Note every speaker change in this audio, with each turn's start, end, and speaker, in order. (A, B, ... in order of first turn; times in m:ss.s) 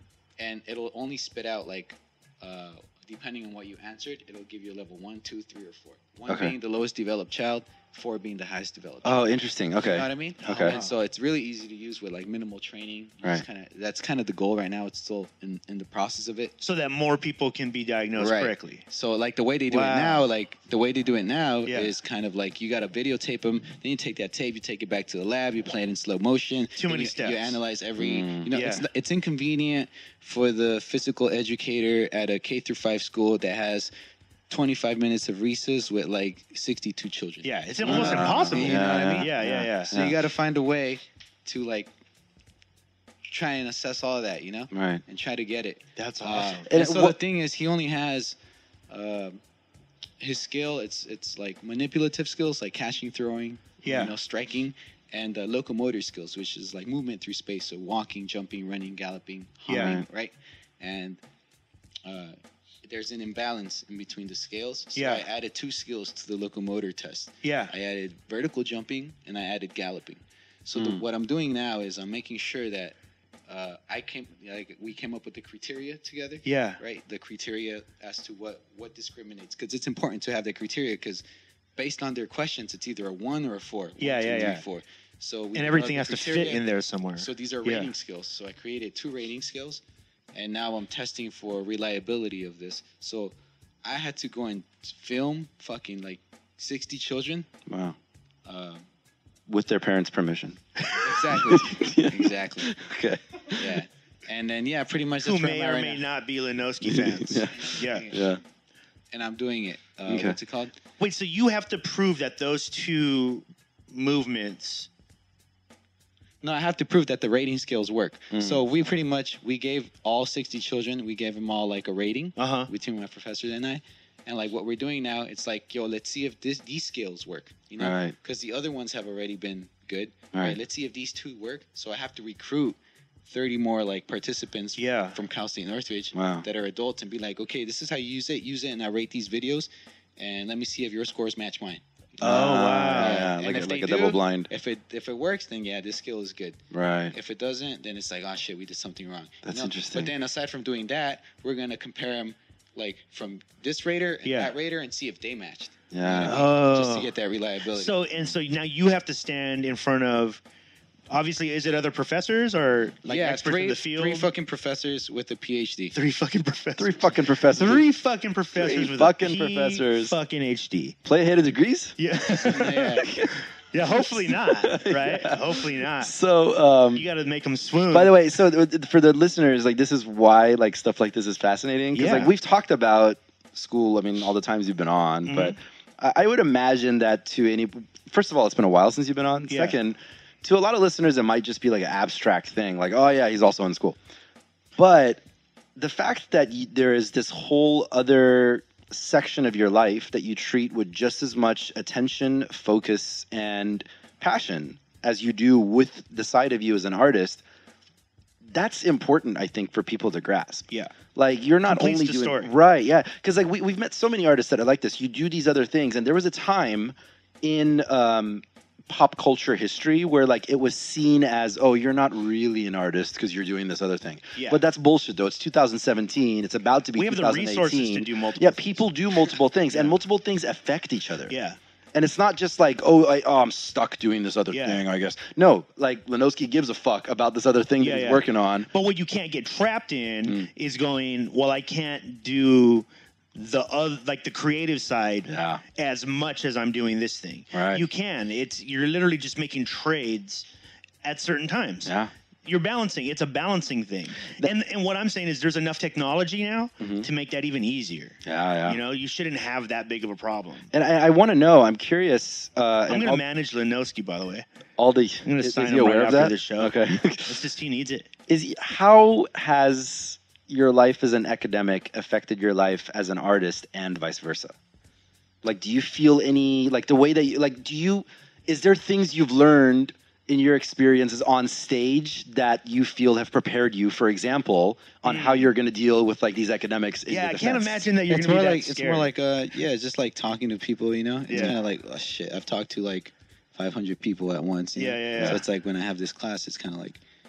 0:00.4-0:16.6 A
0:06.3-0:06.6 B
0:09.0-0:10.8 B
0:16.6-0:18.8 C
0:18.2-0:33.9 A
0:19.7-0:20.3 C
0:21.7-0:21.9 C
0:26.8-0:27.6 C
0:28.0-0:28.5 B
0:28.5-0:28.8 C
0:34.5-0:41.9 A
0:37.4-0:39.9 C
0:37.8-0:40.2 B
0:43.3-0:48.4 A
0:44.7-0:45.0 B
0:46.0-0:46.7 C
0:46.7-0:47.2 B
0:48.9-0:49.4 A
0:50.2-1:01.2 A
0:53.8-0:54.1 C
0:59.7-1:00.0 C
0:59.7-1:00.0 B
1:02.0-1:13.0 A
1:05.0-1:05.2 C
1:07.4-1:07.7 C
1:10.8-1:11.0 B
1:13.5-1:21.2 A
1:16.4-1:16.8 C
1:21.8-1:26.6 A
1:24.0-1:24.6 C
1:25.6-1:27.9 C
1:27.2-1:29.8 A
1:30.3-1:33.3 A
1:33.8-1:37.5 A
1:37.7-1:38.0 B
1:38.5-1:38.9 A
1:39.5-1:40.6 B
1:41.0-1:42.8 A
1:41.3-1:43.8 B
1:43.6-1:46.0 A
1:45.2-1:48.1 C
1:46.8-1:48.4 B
1:47.6-1:48.4 A
1:49.1-1:50.8 A
1:50.1-1:50.4 B
1:51.0-1:54.9 C
1:56.4-2:12.8 A
1:58.3-1:58.6 B
2:02.4-2:02.7 C
2:07.8-2:08.2 B
2:13.3-2:21.8 A
2:14.8-2:15.2 C
2:16.1-2:16.4 B
2:22.2-2:23.3 C
2:22.2-2:24.5 B
2:22.8-2:38.0 A
2:26.7-2:27.2 B
2:29.5-2:30.1 B
2:34.2-2:34.6 C
2:35.9-2:36.4 B
2:36.3-2:37.1 C
2:37.8-2:40.4 C
2:41.1-2:44.3 C
2:43.0-2:46.0 A
2:45.9-2:51.0 C
2:46.8-2:47.8 B
2:48.6-2:50.2 B
2:51.0-2:52.0 B
2:52.0-2:56.1 C
2:52.4-2:53.1 A
2:53.0-2:57.1 B
2:57.0-2:58.1 C
2:57.9-3:14.0 B
3:01.9-3:02.3 C
3:05.3-3:05.6 C
3:09.5-3:09.8 C
3:14.8-3:15.2 B
3:15.8-3:27.4 B
3:28.4-3:51.3 B
3:31.7-3:32.5 C
3:44.4-3:44.6 C
3:47.0-3:50.0 C
3:51.3-3:51.6 C
3:51.9-3:58.7 B
3:54.5-3:54.8 C
3:57.8-4:10.4 C
4:05.2-4:05.6 B
4:07.5-4:07.8 B
4:11.0-4:11.9 C
4:11.8-4:12.1 B
4:12.4-4:20.7 C
4:16.8-4:17.1 B
4:18.2-4:18.8 B
4:20.7-4:23.2 B
4:22.9-4:24.5 C
4:24.8-4:27.4 B
4:25.2-4:28.1 C
4:28.3-4:34.5 B
4:35.4-4:47.9 B
4:45.0-4:45.5 C
4:47.1-4:49.1 C
4:48.1-4:57.0 A
4:51.3-4:51.6 C
4:54.8-4:55.4 C